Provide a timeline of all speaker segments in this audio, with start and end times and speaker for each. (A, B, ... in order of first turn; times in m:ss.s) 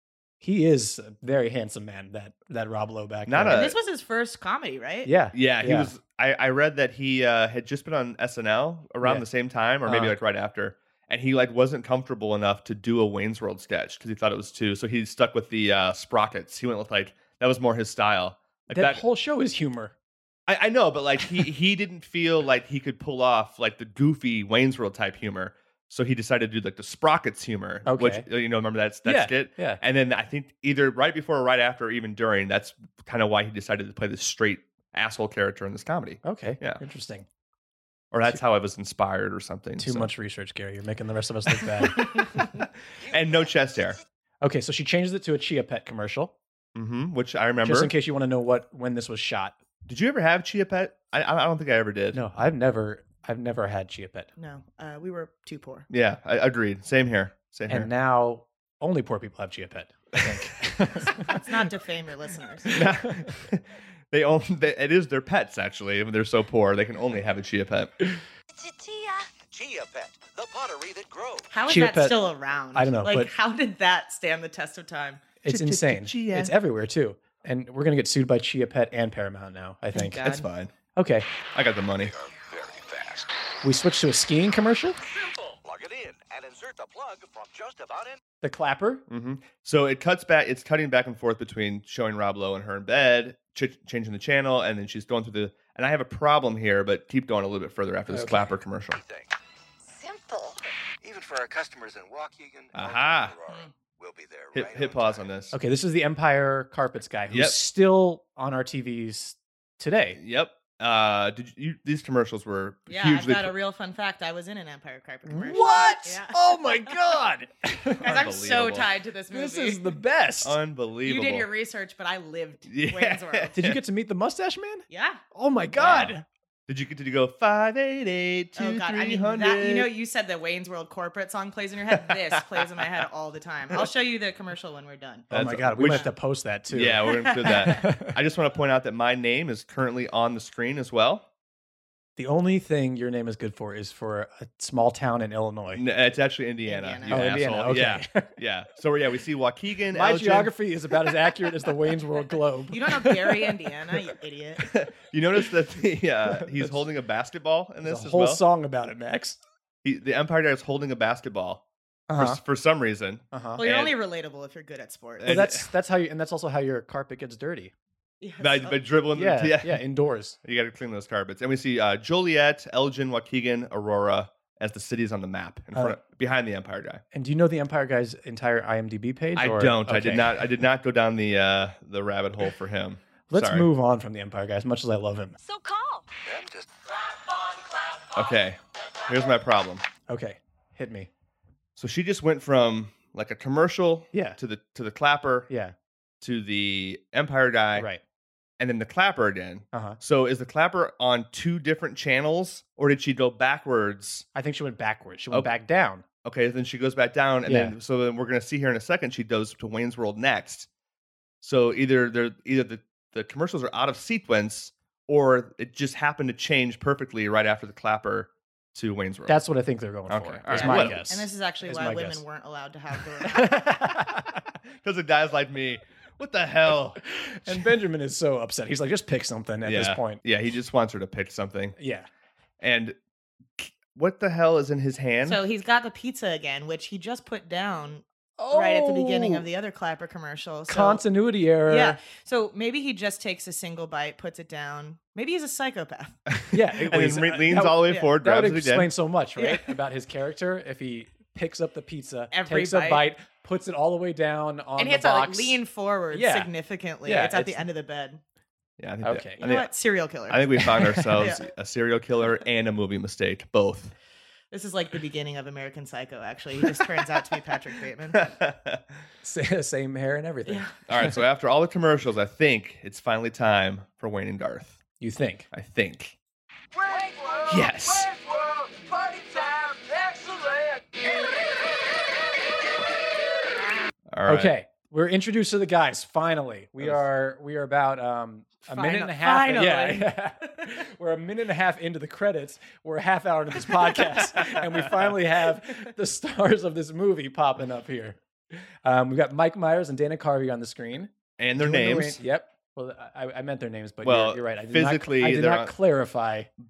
0:00.4-0:03.7 A
0:03.3-0:03.7 B
0:03.5-0:05.1 C
0:05.0-0:05.9 A
0:05.3-0:19.0 B
0:09.8-0:10.1 A
0:18.7-0:19.9 A
0:20.5-0:36.8 B
0:27.8-0:28.2 A
0:29.0-0:29.8 A
0:36.2-0:37.2 A
0:38.1-0:40.1 B
0:39.8-0:42.5 A
0:43.0-0:44.0 B
0:43.1-0:43.5 D
0:44.4-0:46.3 A
0:46.7-0:47.9 B
0:47.6-0:49.6 A
0:49.8-0:52.2 B
0:52.1-0:54.3 A
0:54.4-0:55.9 C
0:55.9-0:57.9 B
0:57.7-1:01.3 A
1:01.0-1:02.7 C
1:02.7-1:03.2 A
1:02.7-1:07.9 B
1:08.5-1:09.3 E
1:09.4-1:11.5 D
1:11.5-1:15.2 C
1:11.7-1:13.3 A
1:15.4-1:20.4 A
1:15.5-1:16.5 B
1:19.9-1:20.4 C
1:20.2-1:20.7 B
1:20.9-1:21.3 A
1:21.5-1:22.1 B
1:22.0-1:23.3 D
1:23.6-1:25.0 A
1:25.6-1:28.2 D
1:28.4-1:29.0 A
1:29.1-1:39.0 B
1:38.1-1:38.5 A
1:39.0-1:39.3 D
1:39.9-1:40.4 E
1:41.0-1:45.3 D
1:42.7-1:43.3 B
1:44.5-1:45.5 B
1:45.5-1:50.2 A
1:47.3-1:47.6 B
1:50.1-1:53.5 B
1:52.9-1:56.4 C
1:55.2-1:58.1 A
1:58.0-1:58.9 B
1:58.0-1:59.9 C
1:59.3-2:00.6 A
2:00.4-2:01.5 B
2:01.0-2:03.6 C
2:02.7-2:03.8 B
2:03.6-2:06.2 A
2:04.9-2:05.2 C
2:05.8-2:06.2 B
2:06.7-2:09.9 B
2:08.6-2:15.3 C
2:11.9-2:13.0 B
2:15.3-2:18.2 A
2:15.3-2:16.1 B
2:15.8-2:16.1 C
2:16.7-2:21.2 B
2:17.1-2:17.8 C
2:22.2-2:25.8 A
2:25.7-2:30.5 B
2:26.6-2:27.3 C
2:27.1-2:28.3 A
2:29.9-2:33.6 A
2:32.7-2:34.7 C
2:34.7-2:38.4 B
2:36.3-2:36.8 A
2:37.8-2:39.4 A
2:39.8-2:41.6 B
2:42.1-2:42.4 A
2:42.2-2:43.9 B
2:43.3-2:43.6 A
2:43.6-2:45.5 C
2:45.2-2:45.7 B
2:45.2-2:47.7 A
2:48.2-2:48.8 C
2:48.4-2:49.8 B
2:49.1-2:50.4 A
2:50.4-2:57.0 B
2:55.7-2:56.0 A
2:57.1-3:00.4 A
2:59.4-3:03.7 B
3:03.3-3:05.4 A
3:05.4-3:06.0 E
3:06.3-3:06.6 D
3:08.1-3:09.8 B
3:10.1-3:11.1 A
3:11.8-3:15.5 B
3:14.1-3:14.4 A
3:15.5-3:15.7 A
3:16.2-3:17.9 B
3:17.8-3:18.0 A
3:18.6-3:24.2 B
3:19.7-3:20.0 A
3:24.3-3:26.0 A
3:26.2-3:30.7 B
3:27.4-3:27.7 A
3:31.4-3:39.4 B
3:39.3-3:42.2 A
3:40.1-3:41.0 B
3:40.5-3:43.8 C
3:43.2-3:44.4 A
3:44.8-3:47.6 B
3:47.0-3:50.2 A
3:49.6-3:51.8 B
3:51.8-3:52.1 A
3:52.6-3:53.0 B
3:53.6-3:55.4 B
3:55.2-4:01.0 C
3:58.4-3:59.4 A
4:00.7-4:02.0 A
4:01.6-4:06.2 C
4:06.3-4:08.9 B
4:06.5-4:15.6 A
4:07.8-4:08.1 C
4:09.4-4:09.7 C
4:12.3-4:13.0 C
4:14.8-4:18.2 C
4:16.1-4:16.5 A
4:17.0-4:17.6 A
4:18.8-4:19.7 B
4:19.0-4:19.4 A
4:19.4-4:21.4 C
4:20.3-4:23.9 B
4:20.7-4:21.3 A
4:24.5-4:28.2 C
4:28.1-4:28.8 B
4:29.2-4:31.2 A
4:30.9-4:34.8 B
4:35.0-4:35.5 A
4:35.5-4:36.1 B
4:36.7-4:41.1 F
4:37.5-4:38.1 B
4:44.1-4:44.5 B
4:44.2-4:58.2 A
4:48.7-4:50.1 C
4:58.8-5:06.5 A
5:01.4-5:02.2 B
5:04.0-5:05.7 B